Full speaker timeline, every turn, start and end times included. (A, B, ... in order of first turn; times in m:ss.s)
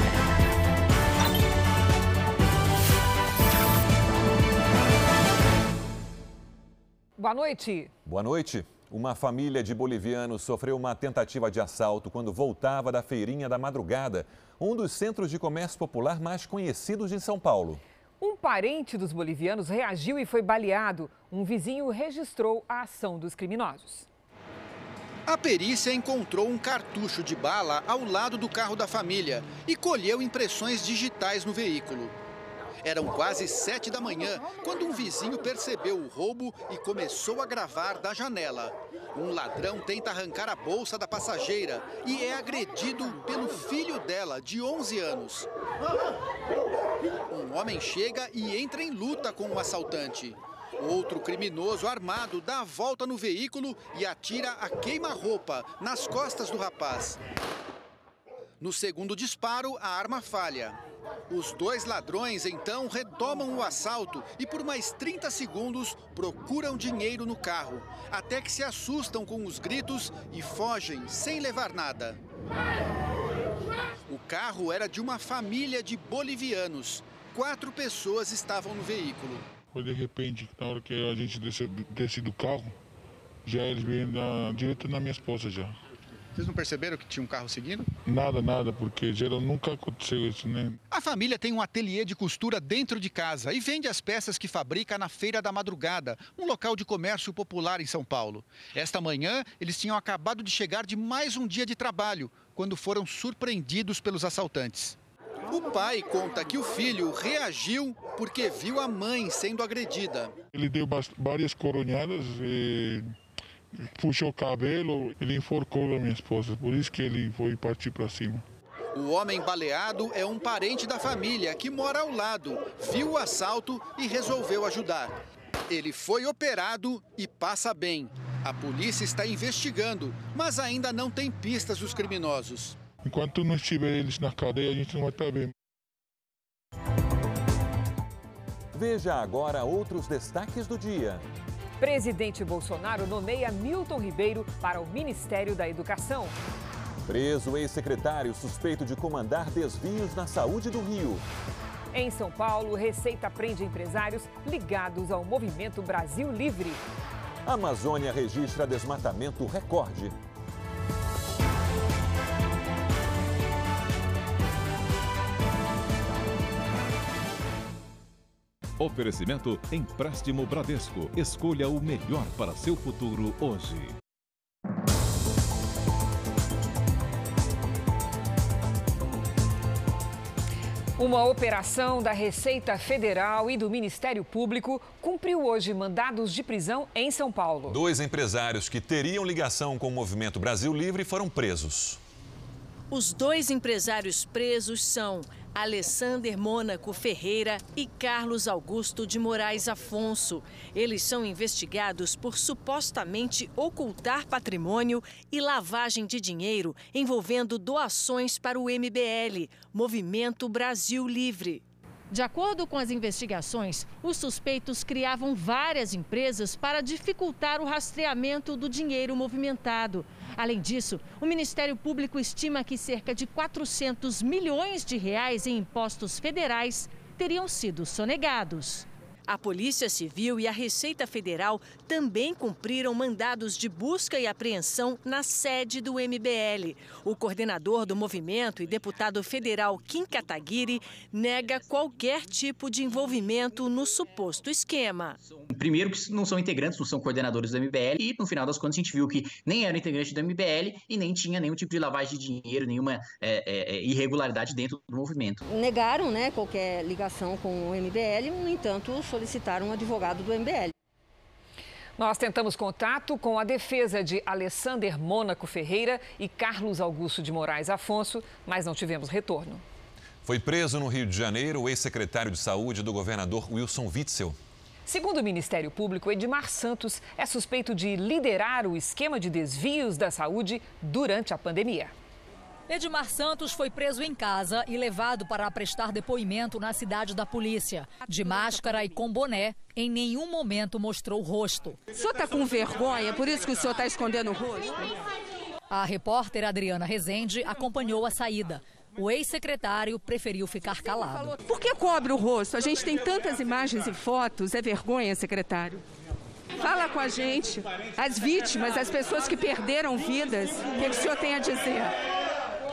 0:07.2-0:07.9 A
0:08.0-0:17.8 B
0:18.2-0:24.1 A
0:25.2-0:32.1 C
0:32.8-0:45.5 C
0:47.3-0:57.2 C
0:58.6-1:12.2 C
1:14.1-1:19.5 C
1:19.7-1:22.7 D
1:23.4-1:25.8 D
1:26.4-1:27.9 C
1:28.0-1:30.8 D
1:30.9-1:45.0 C
1:45.5-1:50.3 C
1:50.5-1:53.2 D
1:53.7-1:58.4 D
1:58.9-2:05.1 C
2:05.7-2:12.8 C
2:13.0-2:15.5 D
2:18.7-2:21.2 B
2:21.8-2:26.3 A
2:27.1-2:31.2 B
2:31.9-2:36.8 A
2:37.4-2:40.2 B
2:48.8-2:53.9 E
3:01.0-3:07.8 A
3:07.7-3:12.0 B
3:12.9-3:31.6 F
3:32.1-3:48.9 G
3:49.3-4:05.2 F
4:05.5-4:15.4 H
4:15.5-4:20.7 I
4:22.0-4:29.6 A
4:30.2-4:34.4 B
4:34.9-4:41.9 A
4:42.7-4:51.8 J
4:51.9-4:54.8 K
4:55.7-5:01.3 J
5:01.4-5:05.8 K
5:06.6-5:11.9 K